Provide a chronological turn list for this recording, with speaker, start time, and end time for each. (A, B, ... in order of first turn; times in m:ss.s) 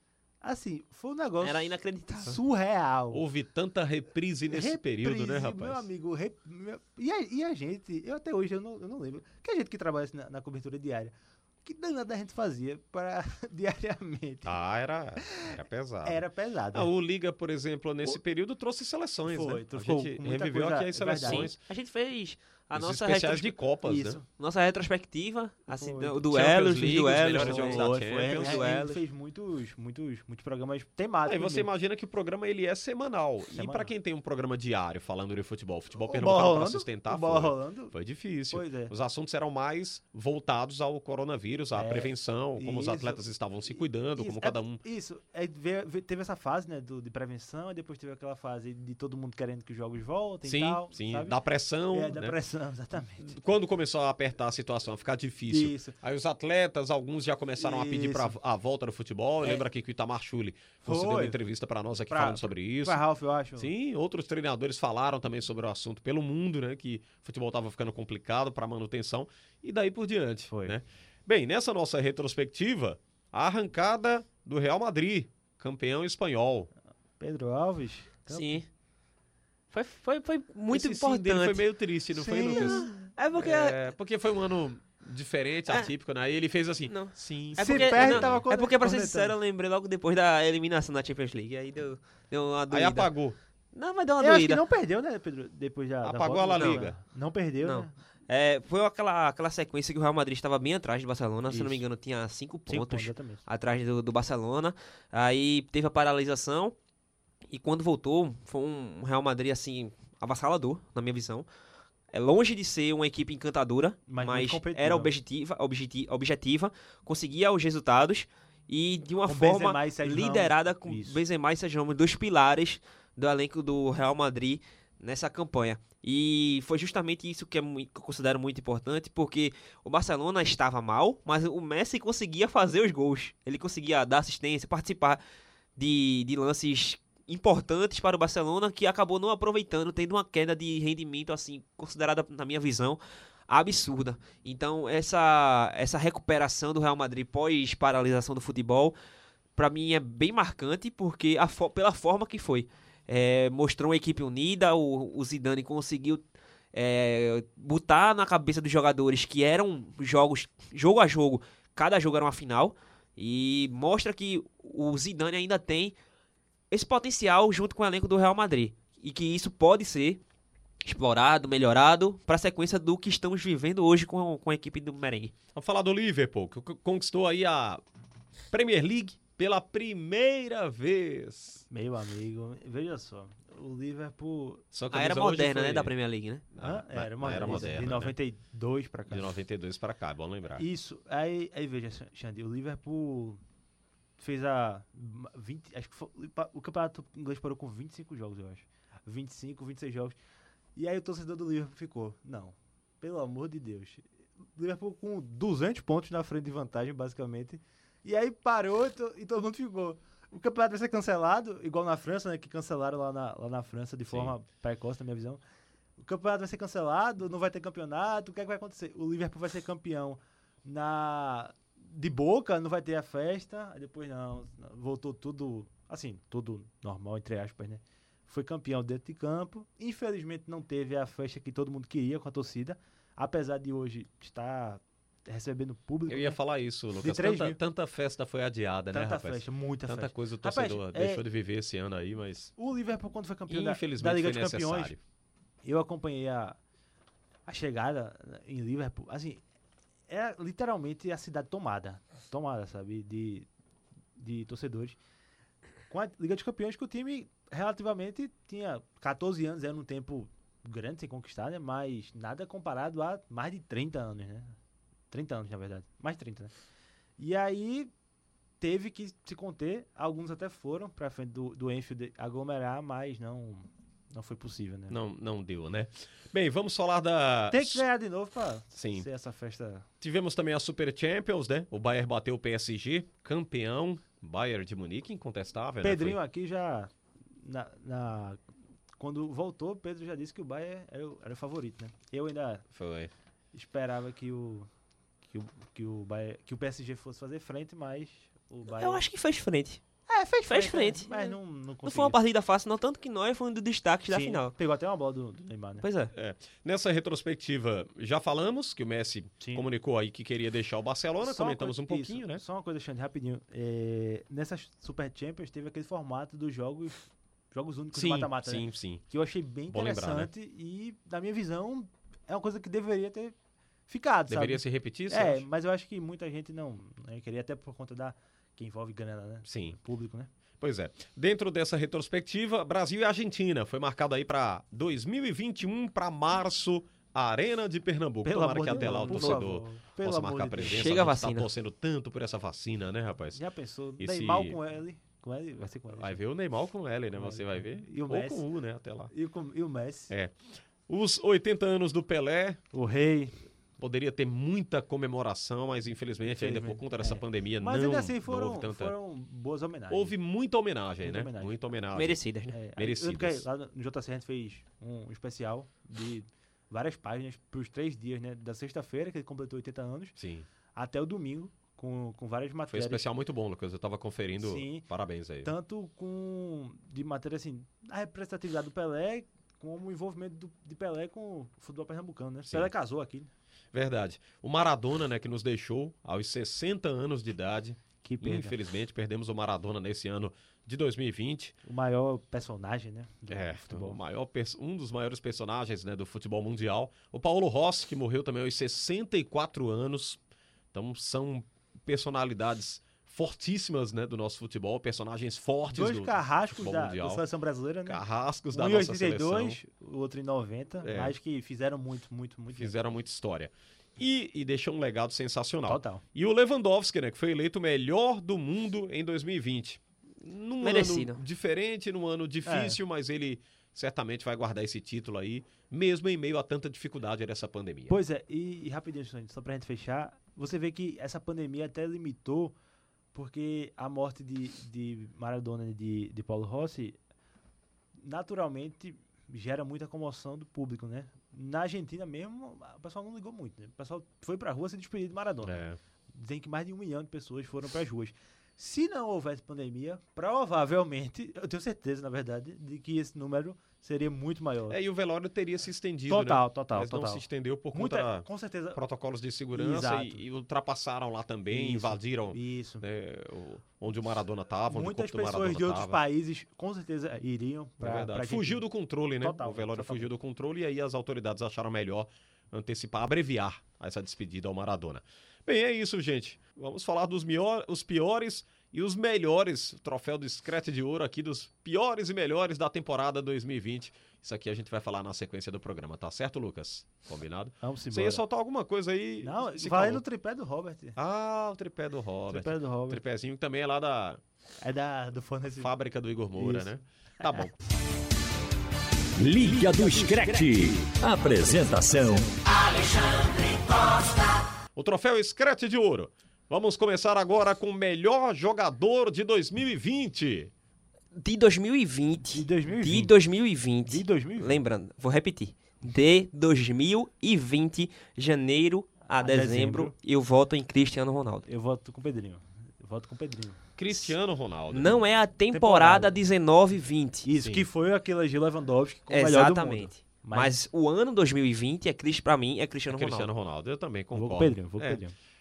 0:00.4-0:03.2 A
0:01.4-0:02.4 B
0:03.1-0:05.9 C
0:04.5-0:14.6 A
0:14.4-0:16.2 C
0:15.2-0:16.9 A
0:16.7-0:21.6 C
0:19.3-0:21.5 A
0:21.2-0:23.6 B
0:22.7-0:24.2 C
0:23.8-0:24.2 A
0:24.3-0:29.0 B
0:25.7-0:26.2 A
0:26.3-0:28.7 C
0:26.8-0:31.7 A
0:31.3-0:44.8 C
0:33.5-0:33.9 A
0:36.0-0:37.9 A
0:38.5-0:38.9 A
0:41.7-0:51.4 A
0:50.5-0:52.4 C
0:51.9-0:53.4 A
0:53.2-1:03.0 C
0:55.5-0:56.0 A
0:57.6-0:58.4 A
1:00.8-1:01.4 A
1:02.1-1:03.7 A
1:03.6-1:16.7 C
1:10.5-1:10.8 A
1:17.2-1:18.6 A
1:18.3-1:18.7 B
1:19.7-1:21.6 B
1:20.7-1:28.4 C
1:22.2-1:23.1 A
1:22.5-1:23.9 B
1:26.9-1:33.1 B
1:27.6-1:29.3 A
1:32.7-1:33.4 C
1:33.7-1:34.6 B
1:34.2-1:37.9 A
1:36.0-1:37.0 C
1:37.6-1:46.8 B
1:41.5-1:41.8 A
1:42.7-1:43.4 A
1:47.5-1:51.5 B
1:52.1-2:15.2 B
1:54.1-1:55.1 A
1:59.3-2:01.2 A
2:15.8-2:29.0 B
2:29.6-2:46.0 B
2:46.7-2:50.2 B
2:50.8-2:55.3 B
2:55.6-2:57.8 C
2:58.5-3:01.6 C
3:01.7-3:04.6 A
3:04.7-3:05.9 C
3:04.9-3:06.4 B
3:06.5-3:08.1 C
3:06.6-3:09.3 A
3:09.1-3:10.6 C
3:10.6-3:13.4 A
3:14.2-3:20.2 A
3:20.8-3:35.4 A
3:36.0-3:56.4 A
3:56.1-4:02.5 C
3:57.0-3:57.6 A
3:58.9-4:01.2 A
4:02.6-4:05.0 A
4:03.5-4:05.0 C
4:05.6-4:06.6 A
4:07.5-4:09.4 A
4:10.1-4:13.5 A
4:14.2-4:15.0 A
4:15.9-4:24.6 A
4:25.1-4:26.5 A
4:27.2-4:27.9 A
4:28.6-4:35.0 A
4:34.9-4:37.8 C
4:37.5-4:39.8 A
4:38.8-4:39.1 C
4:40.0-4:46.2 C
4:45.8-4:48.4 A
4:49.0-4:52.6 A
4:52.7-4:53.1 C
4:53.5-4:54.7 A
4:55.3-4:59.0 A
4:58.8-4:59.8 B
5:00.1-5:02.2 A
5:00.5-5:04.5 B
5:04.1-5:05.8 A
5:05.8-5:06.1 B
5:06.1-5:12.4 C
5:09.4-5:09.7 A
5:11.2-5:23.4 A
5:17.9-5:19.0 C
5:19.7-5:20.3 C
5:23.9-5:30.3 A
5:24.3-5:25.5 C
5:29.4-5:29.8 C
5:30.6-5:43.4 C
5:38.2-5:41.0 A
5:38.9-5:39.4 B
5:40.6-5:41.5 B
5:43.4-5:46.2 A
5:44.0-5:44.6 C
5:45.9-5:49.1 C
5:47.1-5:48.4 A
5:49.1-5:50.1 A
5:50.1-5:52.6 C
5:52.7-5:53.4 A
5:53.8-5:58.9 C
5:56.2-6:00.2 A
5:59.9-6:02.2 C
6:01.0-6:01.6 A
6:01.9-6:02.6 B
6:02.5-6:10.2 A
6:02.8-6:03.4 C
6:10.2-6:10.5 C
6:10.8-6:13.0 A
6:12.7-6:15.5 C
6:14.4-6:14.9 A
6:15.4-6:23.3 A
6:22.5-6:22.7 C
6:23.7-6:31.6 C
6:28.0-6:28.6 A
6:31.6-6:34.0 A
6:33.3-6:40.2 C
6:40.7-6:47.2 C
6:45.7-6:52.8 A
6:47.9-6:49.6 C
6:50.8-6:51.1 C
6:52.5-7:08.0 C
6:55.7-6:56.0 A
7:00.6-7:01.2 B
7:02.4-7:02.8 A
7:07.9-7:12.6 A
7:13.1-7:17.0 A
7:18.0-7:34.8 A
7:25.4-7:25.8 C
7:34.7-7:46.0 C
7:36.1-7:38.8 A
7:39.5-7:40.2 A
7:41.5-7:42.8 A
7:44.7-7:48.7 A
7:47.8-8:10.0 C
7:49.2-7:50.1 A
8:07.6-8:08.2 A
8:09.2-8:11.0 A
8:11.0-8:14.2 C
8:12.3-8:13.0 A
8:14.6-8:15.7 A
8:15.6-8:17.5 C
8:16.3-8:17.4 A
8:19.2-8:23.9 D
8:24.8-8:30.5 C
8:31.2-8:41.5 B
8:32.3-8:33.1 A
8:33.9-8:34.6 A
8:39.2-8:39.9 A
8:41.5-8:43.6 A
8:43.8-8:45.0 C
8:44.7-8:47.3 B
8:45.5-8:46.2 A
8:47.3-8:50.6 A
8:47.4-8:47.6 C
8:49.1-8:53.3 B
8:52.9-8:55.0 C
8:54.1-8:55.2 A